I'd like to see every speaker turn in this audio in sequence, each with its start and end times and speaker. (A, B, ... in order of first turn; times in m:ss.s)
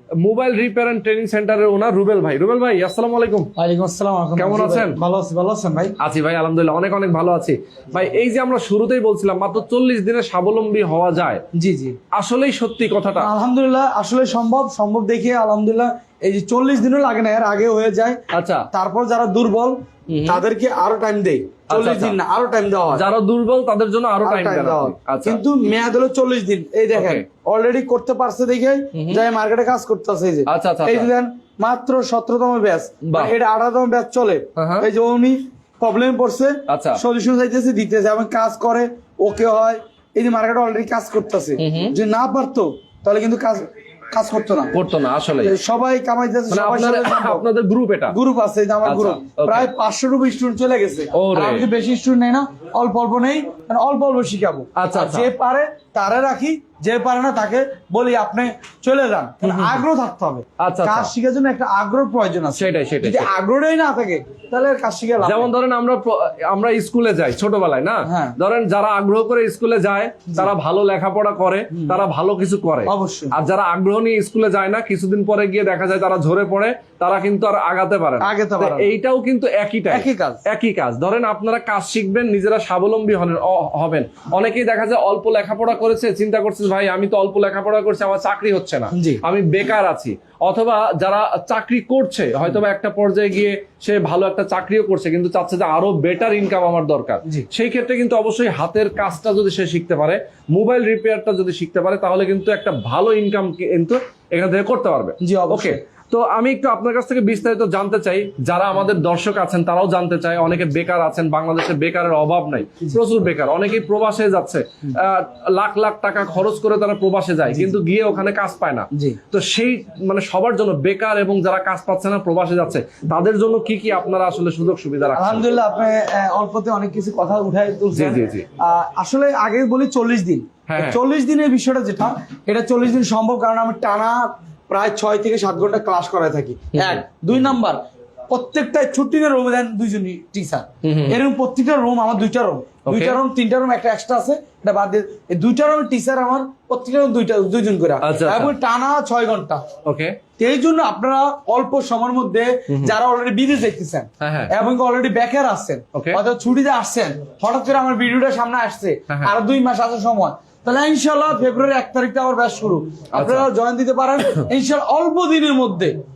0:00.2-0:03.5 A
0:03.6-0:05.9 B
0:04.4-0:05.0 A
0:06.0-0:11.4 A
0:11.5-0:12.0 B
0:12.1-0:13.3 A
0:13.2-0:18.2 B
0:18.3-0:18.7 A
0:18.7-0:23.0 B
0:20.1-0:20.4 A
0:21.7-0:22.2 A
0:22.9-0:25.4 A
0:24.2-0:44.8 B
0:26.9-0:27.2 A
0:28.9-0:29.2 A
0:30.5-0:31.1 A
0:33.0-0:33.3 A
0:34.6-0:34.9 A
0:36.7-0:37.0 A
0:41.6-0:42.0 A
0:44.7-0:45.5 A
0:45.4-0:47.4 B
0:46.5-0:48.2 A
0:48.1-1:05.5 B
0:48.8-0:49.7 A
0:51.1-0:51.7 A
0:54.8-0:55.3 A
0:59.4-0:59.8 A
1:00.6-1:01.1 A
1:02.6-1:03.3 A
1:05.2-2:05.4 A
1:08.1-1:08.4 B
1:11.7-1:12.0 B
1:12.8-1:13.3 B
1:18.2-1:18.9 B
1:19.9-1:20.4 B
1:28.9-1:29.2 B
1:45.2-1:45.8 B
1:57.5-1:57.8 B
1:58.9-1:59.2 B
2:05.1-2:17.8 B
2:07.9-2:08.4 A
2:10.7-2:11.0 A
2:16.7-2:17.0 A
2:18.3-2:29.6 B
2:20.8-2:21.2 A
2:22.8-2:23.2 A
2:28.0-2:28.5 A
2:29.8-2:30.2 A
2:30.4-2:45.9 B
2:32.7-2:32.9 A
2:34.2-2:34.5 A
2:43.1-2:43.5 A